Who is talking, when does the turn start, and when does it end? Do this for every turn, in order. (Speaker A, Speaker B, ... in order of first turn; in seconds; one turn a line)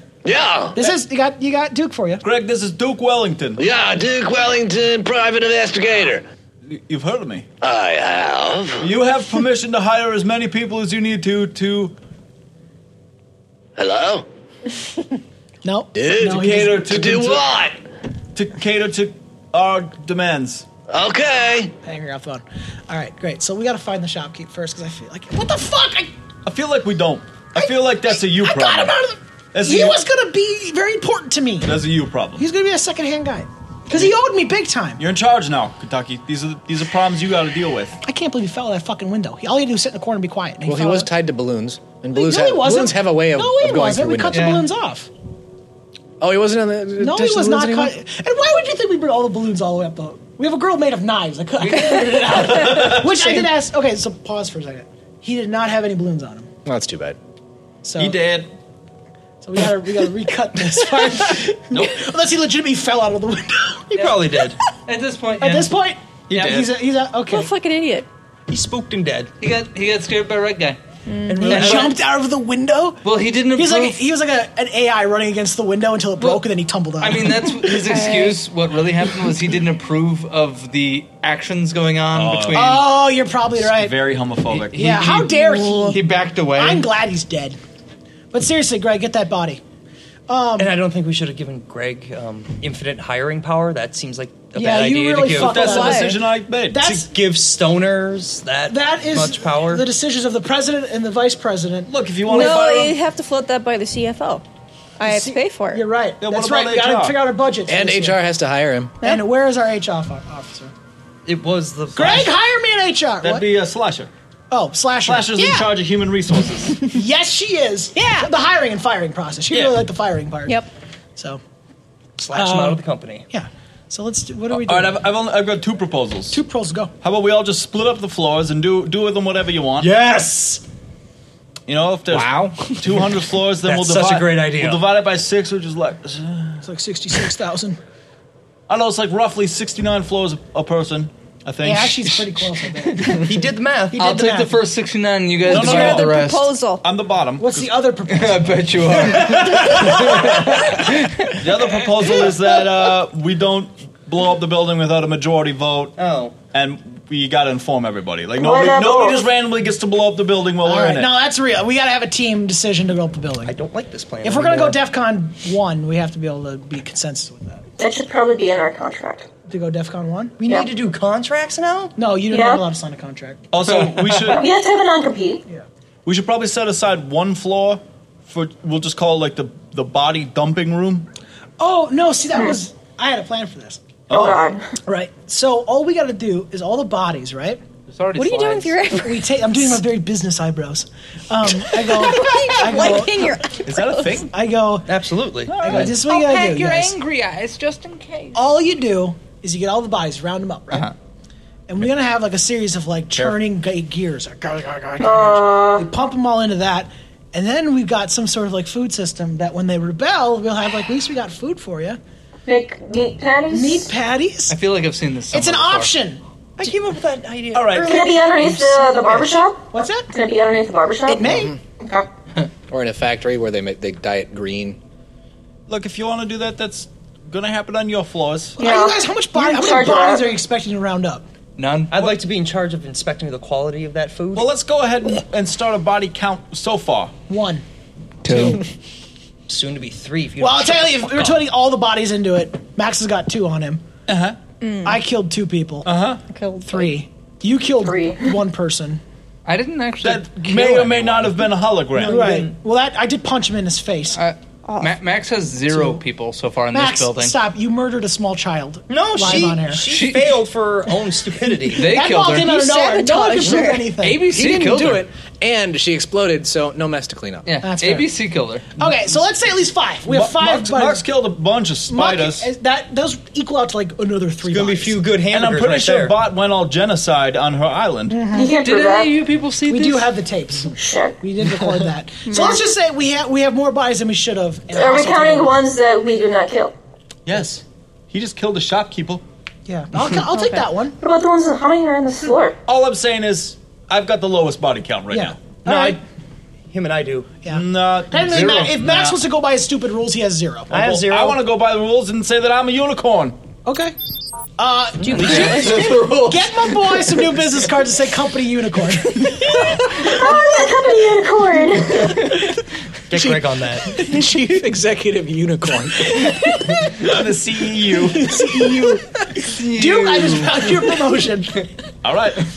Speaker A: 0.2-0.8
Speaker B: 0.8-2.2
Speaker C: 2.2-3.6
Speaker A: 3.5-6.2
Speaker C: 6.7-7.5
Speaker A: 7.6-8.8
Speaker C: 8.8-11.9
Speaker A: 13.8-14.2
Speaker B: 15.6-16.9
Speaker A: 15.9-17.8
Speaker C: 16.3-17.4
Speaker C: 18.3-20.6
Speaker A: 20.9-21.7
Speaker B: 21.8-26.1
Speaker C: 26.4-29.0
Speaker B: 27.6-35.0
Speaker C: 29.5-30.0
Speaker C: 31.6-32.4
Speaker C: 35.0-38.0
Speaker B: 38.0-41.1
Speaker D: 40.6-44.4
Speaker B: 42.1-45.1
Speaker E: 44.3-44.7
Speaker D: 46.2-48.0
Speaker B: 47.0-56.5
Speaker E: 51.6-52.7
Speaker C: 52.3-53.4
Speaker D: 56.6-57.2
Speaker B: 57.8-58.2
Speaker C: 58.0-58.5
Speaker B: 59.4-64.3
Speaker C: 61.7-62.0
Speaker F: 63.9-64.6
Speaker E: 64.8-65.7
Speaker B: 65.4-67.5
Speaker C: 66.3-66.7
Speaker G: 67.3-68.1
Speaker F: 68.5-69.3
Speaker E: 69.4-70.8
Speaker G: 71.1-71.7
Speaker F: 71.3-72.0
Speaker B: 71.4-77.7
Speaker E: 71.5-71.8
Speaker E: 73.0-74.0
Speaker E: 77.0-82.9
Speaker G: 77.7-78.4
Speaker C: 82.1-82.8
Speaker B: 82.5-84.1
Speaker C: 83.6-85.2
Speaker E: 84.5-86.9
Speaker B: 84.7-86.0
Speaker B: 86.5-87.6
Speaker B: 88.3-89.6
Speaker B: 90.3-90.8
Speaker F: 90.6-95.6
Speaker B: 94.5-97.1
Speaker C: 95.3-96.9
Speaker G: 95.6-96.2
Speaker F: 96.8-99.8
Speaker B: 98.7-102.7
Speaker C: 101.8-103.0
Speaker G: 102.2-104.4
Speaker G: 105.0-105.8
Speaker B: 105.0-108.2
Speaker C: 106.2-107.2
Speaker D: 107.7-109.0
Speaker B: 109.0-110.7
Speaker F: 111.2-112.3
Speaker B: 111.9-113.5
Speaker C: 113.2-114.1
Speaker B: 114.5-115.6
Speaker C: 115.0-116.9
Speaker G: 115.4-115.7
Speaker B: 116.8-120.6
Speaker G: 118.0-118.3
Speaker C: 119.5-119.8
Speaker F: 122.2-123.2
Speaker B: 122.3-125.1
Speaker C: 124.5-126.4
Speaker B: 126.3-126.9
Speaker C: 127.0-129.9
Speaker F: 129.8-130.6
Speaker C: 131.7-136.6
Speaker D: 132.1-132.7
Speaker F: 133.6-134.8
Speaker B: 136.6-137.8
Speaker C: 138.7-142.3
Speaker B: 141.6-143.3
Speaker F: 143.2-144.0
Speaker B: 143.9-144.6
Speaker E: 144.0-146.5
Speaker C: 145.4-146.2
Speaker G: 145.5-146.9
Speaker C: 146.8-147.8
Speaker B: 147.4-148.6
Speaker E: 148.1-151.3
Speaker C: 150.2-150.6
Speaker C: 151.4-155.9
Speaker F: 155.9-156.3
Speaker C: 156.5-161.1
Speaker H: 158.4-159.3
Speaker B: 160.6-163.5
Speaker F: 163.4-164.8
Speaker B: 164.2-167.6
Speaker H: 167.8-169.3
Speaker B: 169.5-170.3
Speaker F: 170.4-171.9
Speaker B: 171.9-173.5
Speaker H: 172.3-172.6
Speaker C: 173.5-174.5
Speaker E: 173.9-174.2
Speaker H: 174.2-175.4
Speaker C: 176.0-181.1
Speaker B: 181.6-183.8
Speaker C: 184.1-184.4
Speaker H: 184.1-184.7
Speaker B: 184.8-187.6
Speaker E: 187.9-188.9
Speaker G: 188.1-189.4
Speaker B: 188.9-193.2
Speaker G: 191.6-194.2
Speaker C: 193.6-194.3
Speaker B: 194.3-194.9
Speaker F: 194.8-195.6
Speaker C: 195.5-196.0
Speaker B: 195.6-196.9
Speaker E: 195.7-198.4
Speaker B: 198.3-200.9
Speaker B: 201.7-212.0
Speaker C: 203.1-203.4
Speaker H: 205.0-205.8
Speaker H: 212.5-213.9
Speaker B: 213.5-214.6
Speaker E: 214.5-215.9
Speaker B: 215.3-216.2
Speaker F: 216.6-218.7
Speaker C: 217.5-218.0
Speaker H: 217.8-222.1
Speaker B: 219.7-220.1
Speaker B: 221.1-221.5
Speaker D: 221.2-221.6
Speaker D: 222.7-224.8
Speaker C: 225.7-228.6
Speaker B: 228.6-231.2
Speaker H: 228.6-230.3
Speaker E: 231.6-232.0
Speaker F: 231.9-234.5
Speaker C: 234.3-237.1
Speaker B: 237.3-237.6
Speaker E: 238.2-238.6
Speaker B: 238.3-238.6
Speaker F: 239.5-241.4
Speaker B: 240.4-243.8
Speaker C: 244.1-244.4
Speaker G: 244.6-245.0
Speaker B: 244.8-245.9
Speaker C: 245.8-246.2
Speaker G: 246.3-246.9
Speaker B: 246.6-249.0
Speaker H: 247.8-248.3
Speaker E: 249.4-251.4
Speaker C: 250.0-252.3
Speaker B: 251.9-254.2
Speaker F: 252.1-252.5
Speaker E: 254.2-257.4
Speaker G: 254.7-254.9
Speaker B: 255.7-256.0
Speaker B: 256.7-259.8
Speaker F: 258.9-261.8
Speaker E: 259.8-260.4
Speaker E: 261.7-262.8
Speaker B: 261.8-265.1
Speaker G: 262.4-263.9
Speaker E: 264.0-265.1
Speaker D: 264.7-267.5
Speaker E: 267.4-268.7
Speaker B: 267.6-268.1
Speaker B: 268.8-271.0
Speaker C: 270.1-272.5
Speaker B: 271.9-275.0
Speaker F: 274.4-276.2
Speaker C: 275.3-278.3
Speaker B: 278.1-278.6
Speaker H: 278.3-279.1
Speaker E: 278.6-280.1
Speaker B: 279.7-285.6
Speaker H: 280.8-281.1
Speaker H: 282.3-282.6
Speaker H: 284.7-286.7
Speaker C: 287.2-289.2
Speaker B: 289.7-291.0
Speaker G: 290.3-290.6
Speaker H: 291.0-292.6
Speaker C: 292.7-296.0
Speaker B: 295.1-296.0
Speaker F: 296.7-297.4
Speaker B: 297.4-300.7
Speaker C: 297.5-299.1
Speaker E: 298.2-299.1
Speaker F: 300.7-301.4
Speaker C: 300.7-303.4
Speaker B: 303.6-303.9
Speaker B: 304.6-310.1
Speaker E: 305.1-307.2
Speaker H: 309.9-312.2
Speaker F: 313.1-313.9
Speaker D: 313.9-316.3
Speaker C: 317.0-318.4
Speaker B: 318.1-321.7
Speaker E: 319.4-320.8
Speaker C: 322.0-322.4